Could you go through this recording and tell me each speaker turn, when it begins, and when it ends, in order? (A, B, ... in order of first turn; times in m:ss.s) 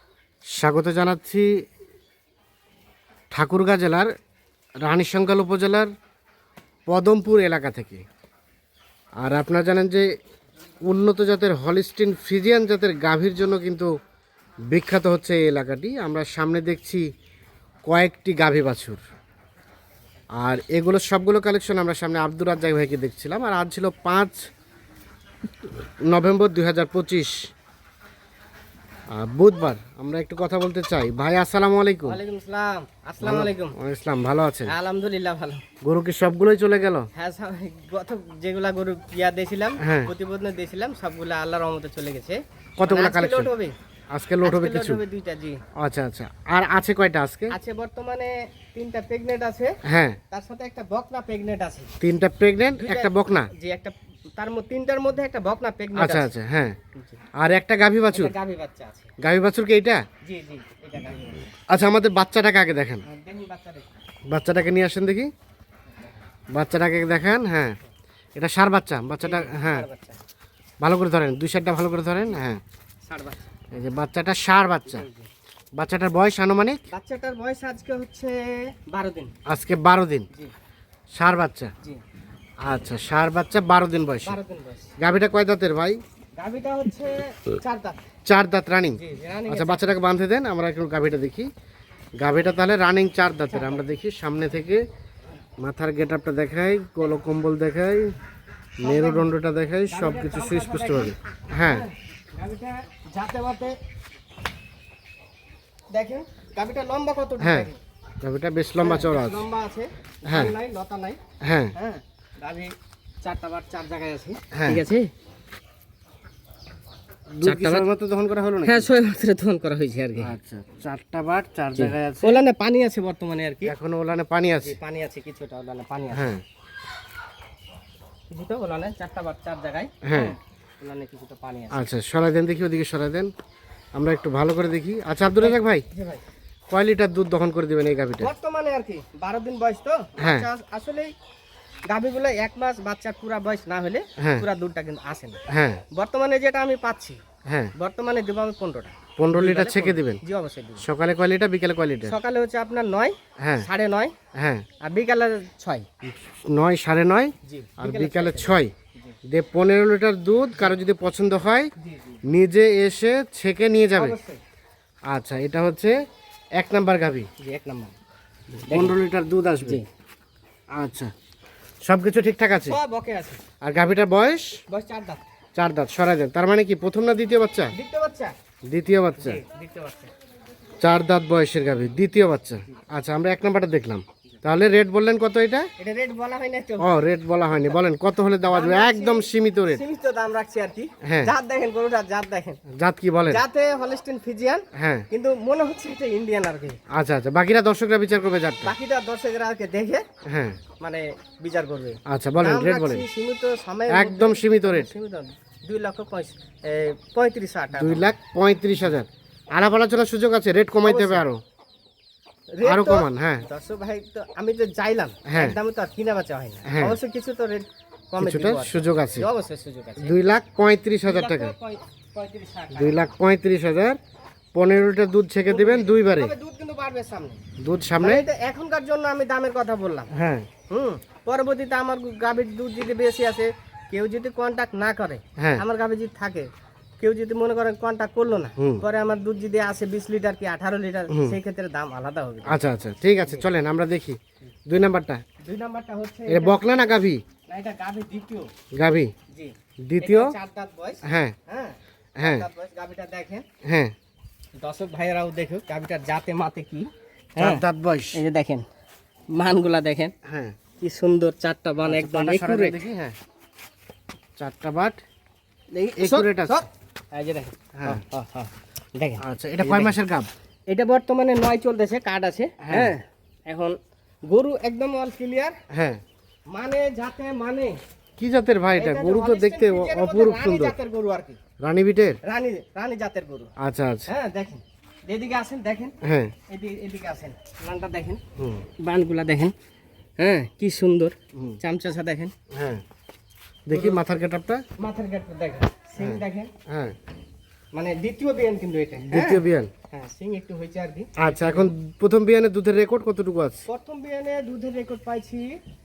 0:00.6-0:01.6 A
0:03.3-0:04.1 A
0:04.8-0:05.9 A
0:06.9-0:08.0 A
0:09.2-0:10.1 A
0:10.8-0:13.9 A
0:14.7-0:17.0 A
0:17.9-0:19.0 A
0:20.4-0:24.5 A
0:25.6-0:27.3 A
0:29.1-0:32.2 A
0:32.1-0:33.8 B
0:33.2-0:34.7 A
0:34.7-0:35.6 B
0:35.8-0:37.1 A
0:37.2-0:43.7 B
0:39.8-0:40.1 A
0:42.8-0:43.5 A
0:44.1-0:45.0 A
0:44.4-0:45.6 B
0:45.8-0:47.5 A
0:47.5-0:49.8 B
0:49.8-0:50.2 A
0:50.3-0:51.9 B
0:52.0-0:53.5 A
0:52.8-0:56.3 B
0:56.0-0:56.8 A
0:57.0-0:57.2 B
0:57.4-0:58.3 A
0:58.1-0:59.1 B
0:59.2-1:00.0 A
1:00.2-1:01.6 B
1:01.7-1:03.0 A
1:03.0-1:03.9 B
1:04.3-1:05.3 A
1:06.5-1:07.8 A
1:08.4-1:09.9 A
1:09.2-1:10.2 B
1:10.8-1:12.6 A
1:13.0-1:13.5 B
1:13.7-1:15.0 A
1:14.9-1:15.3 B
1:15.8-1:16.8 A
1:16.9-1:19.3 B
1:19.5-1:20.3 A
1:21.1-1:21.7 A
1:22.6-1:24.4 A
1:24.2-1:24.9 B
1:25.0-1:26.0 A
1:26.4-1:28.0 B
1:28.3-1:31.5 A
1:28.9-1:30.0 B
1:32.2-1:34.8 A
1:33.5-1:33.9 B
1:35.6-1:38.1 A
1:38.8-1:39.3 B
1:38.8-1:41.9 A
1:39.9-1:43.8 B
1:45.9-1:47.8 B
1:47.4-1:47.7 A
1:48.2-1:49.5 A
1:48.8-1:51.2 B
1:50.3-1:50.5 A
1:51.4-1:51.7 A
1:51.8-1:55.1 B
1:54.5-1:54.8 A
1:57.3-1:58.9 A
1:57.4-1:57.9 B
1:58.6-2:00.3 B
2:00.2-2:02.4 A
2:01.8-2:03.7 B
2:03.7-2:04.8 A
2:04.6-2:06.3 B
2:06.1-2:06.4 A
2:08.3-2:11.9 B
2:10.0-2:10.4 A
2:11.7-2:13.3 A
2:13.9-2:15.9 A
2:15.4-2:16.2 B
2:16.7-2:18.3 A
2:18.2-2:21.1 B
2:20.2-2:20.5 A
2:21.9-2:25.4 B
2:24.2-2:24.5 A
2:25.5-2:25.8 A
2:25.9-2:27.2 B
2:27.5-2:27.7 A
2:27.8-2:30.8 B
2:29.2-2:30.2 A
2:30.8-2:32.2 A
2:32.0-2:34.2 B
2:33.4-2:33.7 A
2:34.3-2:34.6 A
2:34.8-2:35.9 B
2:36.0-2:38.7 A
2:37.4-2:39.2 B
2:39.3-2:41.7 A
2:41.8-2:42.2 B
2:42.3-2:44.2 A
2:43.9-2:44.4 B
2:45.1-2:45.9 A
2:46.6-2:47.3 A
2:47.4-2:47.9 B
2:48.6-2:49.8 A
2:48.7-2:49.0 B
2:49.6-2:49.9 B
2:50.7-2:51.1 A
2:51.8-2:52.8 A
2:52.6-2:53.4 B
2:53.6-2:54.6 A
2:54.7-2:55.2 B
2:55.6-2:57.7 A
2:57.7-2:58.3 B
2:58.7-2:59.4 A
2:59.2-3:00.1 B
3:00.8-3:05.7 A
3:05.8-3:07.0 B
3:06.8-3:09.8 A
3:07.5-3:07.8 B
3:08.5-3:12.6 B
3:11.0-3:11.3 A
3:12.7-3:13.4 A
3:13.3-3:16.8 B
3:14.7-3:15.1 A
3:16.9-3:18.8 A
3:18.6-3:20.0 B
3:20.2-3:20.6 A
3:20.8-3:28.1 B
3:22.1-3:23.1 A
3:23.9-3:24.9 A
3:27.7-3:31.4 A
3:30.8-3:31.2 B
3:32.6-3:40.2 B
3:32.6-3:33.4 A
3:35.3-3:35.6 A
3:36.6-3:37.0 A
3:38.2-3:39.3 A
3:40.0-3:41.5 A
3:41.1-3:43.1 B
3:42.8-3:44.0 A
3:44.5-3:46.3 A
3:45.5-3:47.4 B
3:47.6-3:48.2 A
3:48.0-3:50.1 B
3:50.1-3:50.5 A
3:50.7-3:56.5 B
3:55.4-3:55.6 A
3:57.0-4:02.6 B
3:58.6-3:58.8 A
4:01.1-4:01.4 A
4:02.5-4:05.2 A
4:05.4-4:06.6 B
4:06.3-4:07.2 A
4:07.5-4:08.5 B
4:08.7-4:09.1 A
4:09.3-4:13.4 B
4:09.9-4:10.3 A
4:11.0-4:11.4 A
4:12.2-4:12.5 A
4:13.6-4:13.9 A
4:14.6-4:18.6 B
4:17.4-4:18.2 A
4:19.3-4:20.1 B
4:20.2-4:20.6 A
4:20.8-4:22.8 B
4:21.8-4:23.2 A
4:24.4-4:25.0 A
4:25.7-4:30.0 B
4:26.0-4:26.6 A
4:27.8-4:28.0 A
4:29.2-4:30.3 A
4:30.7-4:35.6 B
4:32.6-4:33.0 A
4:35.7-4:36.0 A
4:36.5-4:37.8 B
4:38.2-4:40.8 A
4:38.7-4:41.4 B
4:41.6-4:42.2 A
4:42.2-4:43.5 B
4:43.6-4:44.1 A
4:44.1-4:45.9 B
4:46.0-4:46.3 A
4:46.5-4:48.2 B
4:48.4-4:48.7 A
4:48.8-4:49.5 B
4:50.2-4:52.3 B
4:52.5-4:52.8 A
4:53.7-4:54.6 A
4:53.7-4:54.0 B
4:54.8-4:56.5 B
4:56.0-4:57.0 A
4:57.7-5:01.7 B
4:59.0-4:59.7 A
5:01.2-5:03.6 A
5:03.7-5:05.6 B